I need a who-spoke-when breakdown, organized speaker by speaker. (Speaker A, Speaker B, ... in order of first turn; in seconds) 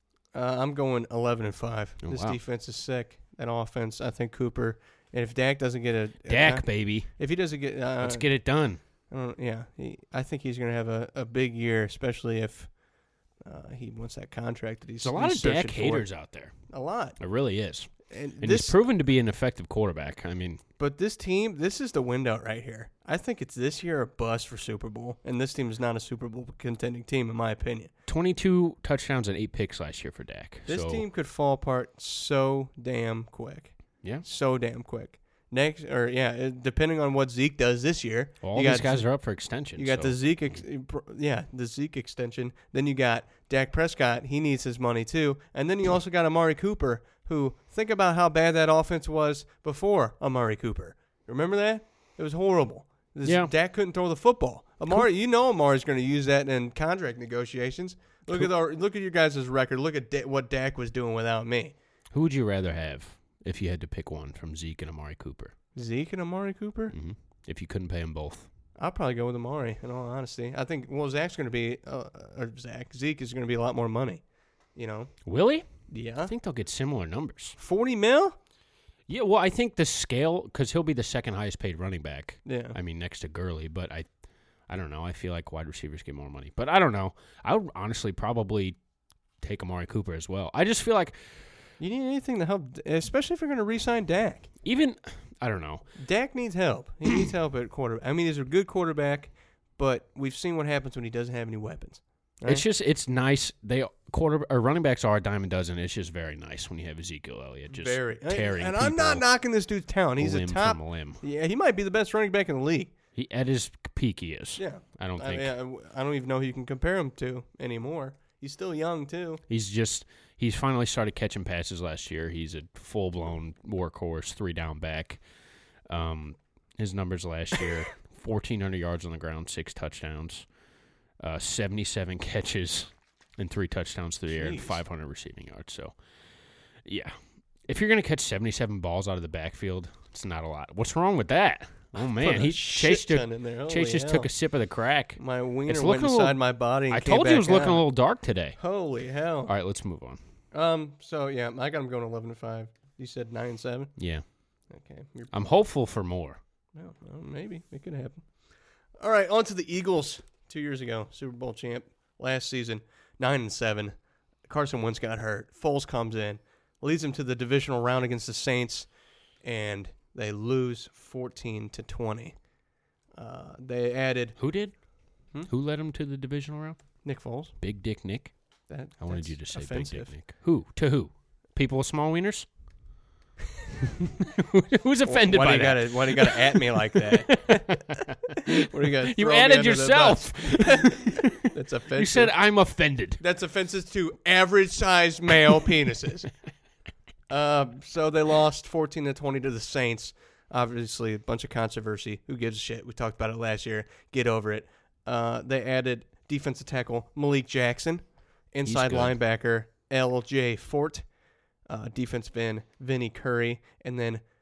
Speaker A: 0.3-8.3, 9.1-12.7, 13.4-16.1, 16.7-17.2, 18.1-18.8, 20.8-27.9, 30.7-39.1, 39.8-61.7, 65.7-66.9, 68.8-74.2, 74.7-75.1, 75.9-76.3, 77.6-78.3, 82.5-82.8, 91.8-94.5, 96.0-102.6, 107.7-112.9, 114.6-119.4, 134.3-134.8, 142.2-144.3, 145.2-147.8, 148.6-149.5, 150.5-153.9, 154.7-155.5, 156.7-158.2, 159.0-168.9, 169.4-172.3, 173.2-174.4, 177.0-177.5, 178.7-180.1, 185.0-188.0, 188.5-192.3, 193.2-196.3, 197.3-211.1, 211.7-214.2
Speaker B: 2.0-2.4, 6.3-7.2, 8.0-8.8, 15.0-16.6, 17.2-20.6, 28.1-31.0, 38.4-40.2, 53.2-53.5, 62.1-65.5, 66.9-68.5, 75.2-75.7, 76.2-77.6, 79.1-84.1, 84.7-88.8, 89.4-91.5, 94.6-95.8, 102.5-109.2, 110.2-111.2, 113.1-115.5, 119.5-125.2, 125.9-130.4, 131.2-135.9, 136.8-137.1, 137.7-148.6, 149.4-150.2, 154.0-154.2, 155.3-156.4, 174.4-174.8, 175.4-176.8, 177.6-178.3, 179.0-182.5, 184.2-191.4, 191.9-193.2, 208.6-209.2